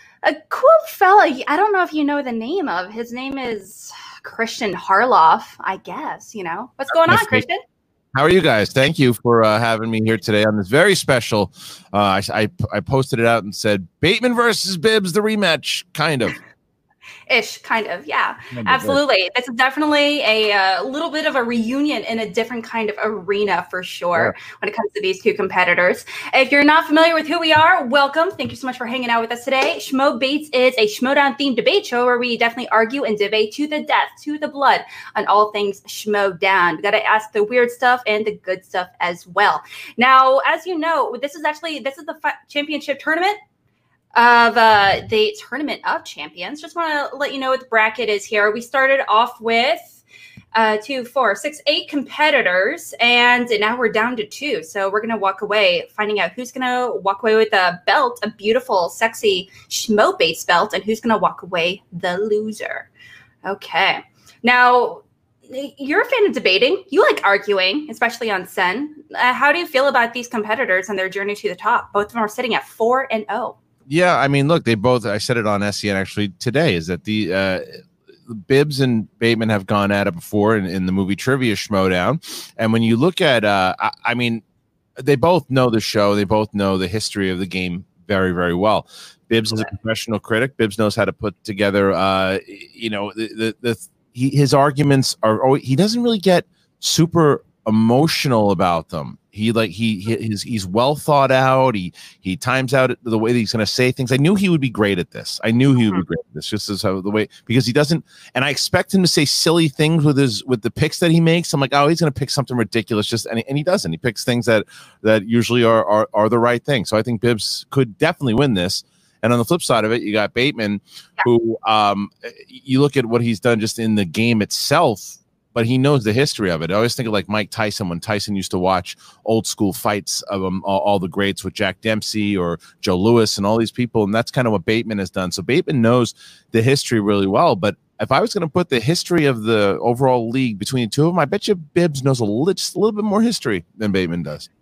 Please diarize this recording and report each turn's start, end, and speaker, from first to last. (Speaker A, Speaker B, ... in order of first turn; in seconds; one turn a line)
Speaker A: 0.2-7.6
Speaker B: 7.0-7.5
Speaker B: 8.1-16.4
Speaker A: 17.3-43.4
Speaker B: 18.5-19.0
Speaker A: 44.1-50.0
Speaker A: 50.5-62.9
Speaker A: 63.5-73.6
Speaker B: 73.9-84.4
Speaker B: 85.0-144.5